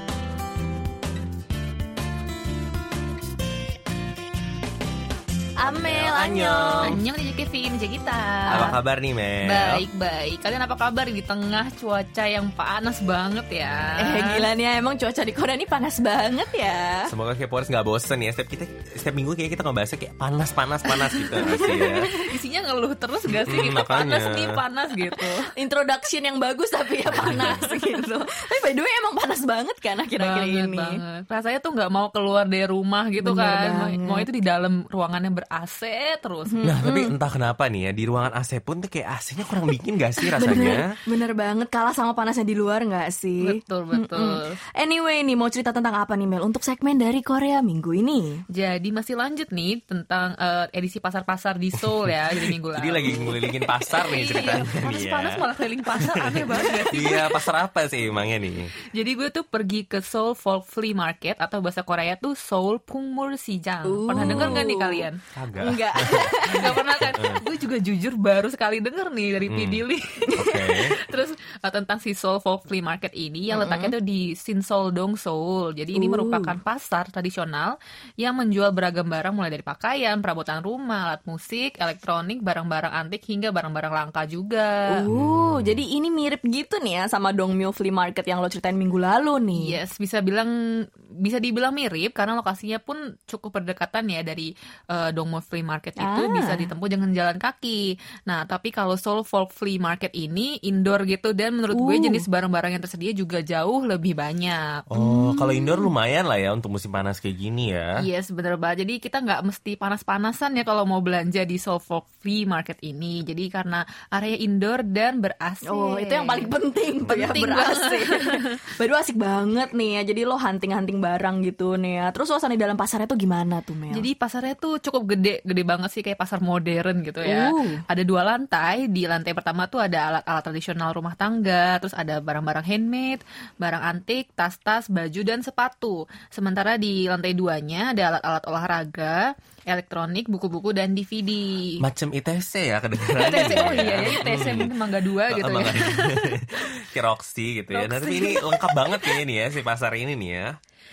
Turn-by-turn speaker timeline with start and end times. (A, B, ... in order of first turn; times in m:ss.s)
0:05.6-0:07.0 A
0:05.7-0:07.0 B
0:06.8-0:08.8 C
0:08.5-0:09.8 B
0:09.4-0:14.5 C
0:13.6-0:14.0 B
0:14.0-0:17.1 A
0:17.1-0:22.1 B
0:21.1-0:22.3 A
0:21.5-0:25.5 C
0:23.3-0:24.6 B
0:25.4-0:31.0 A
0:27.1-0:27.7 B
0:30.2-0:36.6 C
0:33.2-0:34.3 A
0:36.5-0:37.1 A
0:36.6-0:40.8 B
0:40.2-0:48.4 A
0:43.4-0:44.6 C
0:48.5-0:57.4 C
0:51.8-0:55.4 B
0:55.9-0:58.7 B
0:58.9-1:05.2 C
1:03.9-1:05.1 A
1:04.2-1:04.6 B
1:05.4-1:07.4 B
1:05.6-1:07.1 A
1:06.4-1:25.0 C
1:09.5-1:09.8 B
1:10.4-1:11.0 B
1:13.5-1:13.9 A
1:15.9-1:16.6 A
1:24.9-1:29.7 A
1:25.1-1:25.8 B
1:29.6-1:30.5 C
1:31.2-1:44.9 C
1:36.0-1:36.7 A
1:41.7-1:42.2 A
1:44.9-1:48.0 B
1:45.0-1:45.9 A
1:48.0-1:56.5 C
1:55.7-2:04.1 A
1:57.0-1:58.4 C
2:03.9-2:21.8 C
2:07.2-2:07.8 A
2:21.8-2:24.8 B
2:23.2-2:26.7 C
2:23.3-2:24.1 A
2:25.3-2:30.6 B
2:27.7-2:29.2 C